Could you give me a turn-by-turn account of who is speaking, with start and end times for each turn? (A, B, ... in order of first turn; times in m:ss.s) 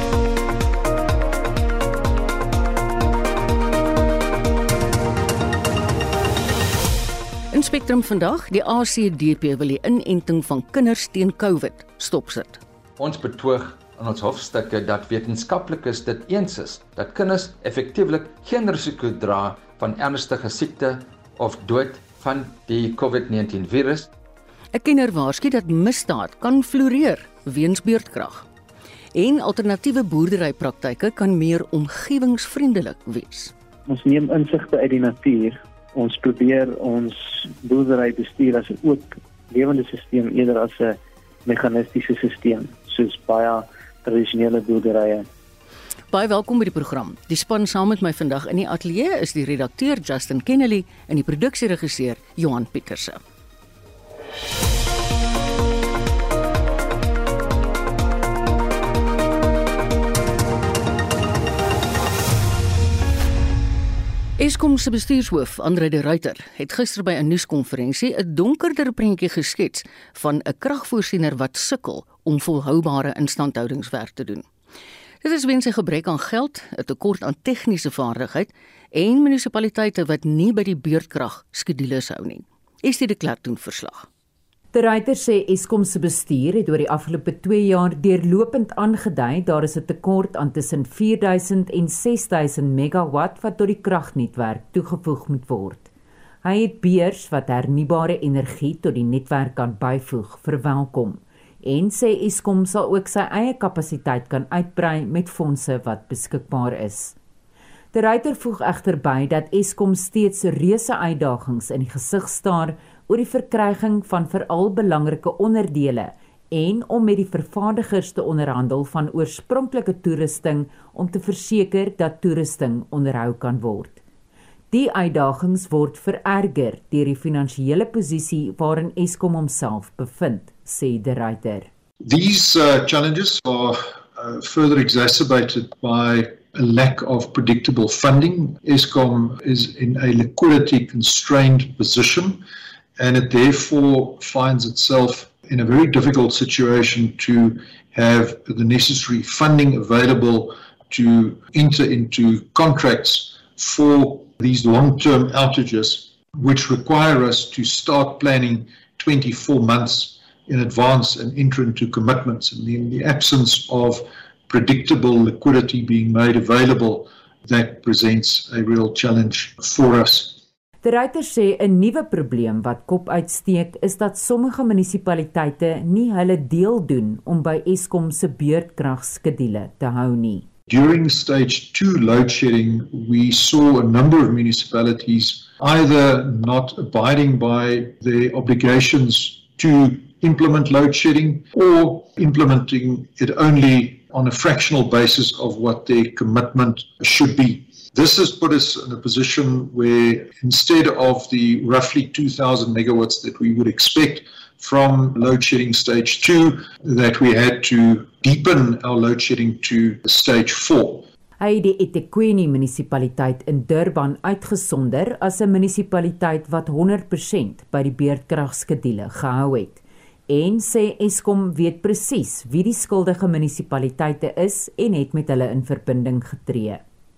0:07.5-0:12.6 A
0:13.0-0:24.1 B
0:24.7-0:28.5 A
0:29.2-0:33.5 A
0:33.9-0:45.3 C
0:46.1-0:53.2 A
1:04.4-1:14.5 A
1:15.2-1:24.1 A
1:24.7-1:35.9 D
1:36.4-1:47.2 D
1:47.9-2:04.0 D
2:04.7-2:11.7 D
2:12.0-2:22.4 E
2:23.0-2:50.4 E
2:50.8-3:00.5 D
3:00.7-3:31.1 E
3:31.4-3:46.8 D